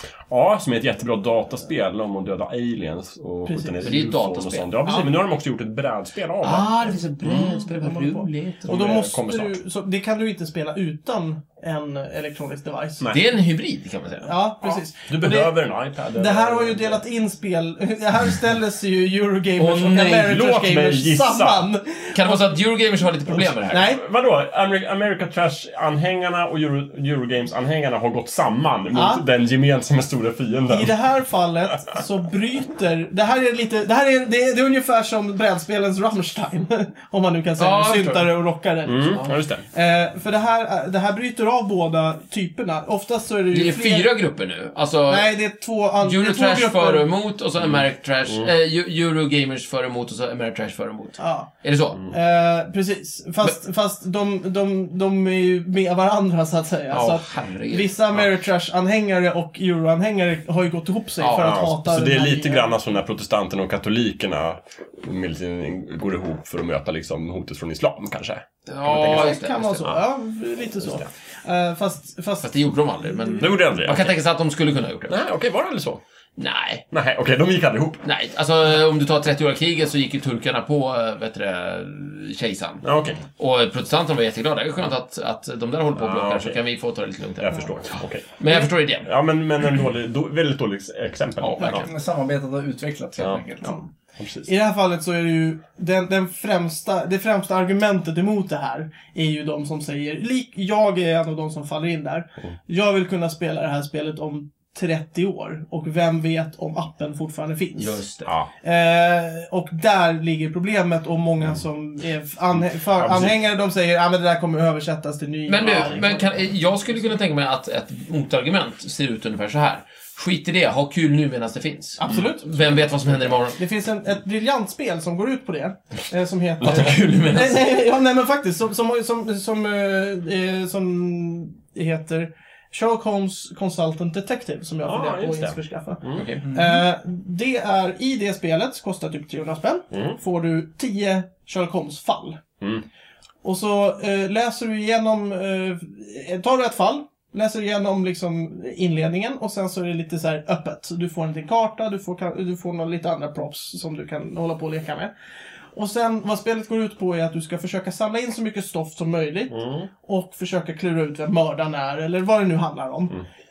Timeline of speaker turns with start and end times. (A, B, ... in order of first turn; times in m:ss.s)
0:00.3-0:07.6 A
0:03.4-0:04.0 B
0:03.8-0:04.7 C
0:04.8-0:05.1 B
0:06.4-0:08.8 C
0:07.3-0:13.1 B
0:08.6-0:09.6 A
0:13.1-0:14.8 C
0:14.2-0:15.5 B
0:15.1-0:17.0 A
0:16.1-0:22.5 B
0:19.6-0:20.3 C
0:19.9-0:21.7 A
0:22.1-0:23.8 C
0:23.3-0:30.9 A
0:23.7-0:24.0 B
0:28.9-0:29.2 B
0:30.7-0:44.1 B
0:37.6-0:38.3 C
0:38.8-0:39.6 A
0:39.1-0:39.3 C
0:43.5-0:45.3 C
0:45.1-0:47.0 B
0:46.0-0:52.0 C
0:47.6-0:48.5 A
0:51.2-0:51.5 B
0:52.1-1:02.7 B
0:56.9-0:57.9 C
1:01.2-1:01.6 C
1:01.3-1:10.0 A
1:08.6-1:09.9 C
1:09.1-1:13.5 B
1:10.8-1:11.1 A
1:12.4-1:15.2 C
1:13.4-1:14.2 A
1:15.1-1:16.0 A
1:16.4-1:16.8 C
1:16.9-1:18.0 A
1:18.0-1:29.1 C
1:22.8-1:23.2 A
1:25.9-1:26.6 A
1:27.4-1:31.9 A
1:31.4-1:31.9 C
1:31.8-1:33.8 D
1:33.2-1:33.4 A
1:33.6-1:33.9 B
1:34.2-1:34.5 A
1:34.4-1:48.0 B
1:47.8-1:48.3 C
1:48.6-1:56.3 B
1:52.8-1:53.4 A
1:55.5-2:03.6 C
2:02.0-2:02.8 B
2:03.5-2:22.4 B
2:06.6-2:07.8 C
2:14.8-2:16.3 A
2:16.1-2:16.4 C
2:16.4-2:16.8 D
2:23.4-2:35.1 B
2:35.7-2:43.2 B
2:39.5-2:39.9 A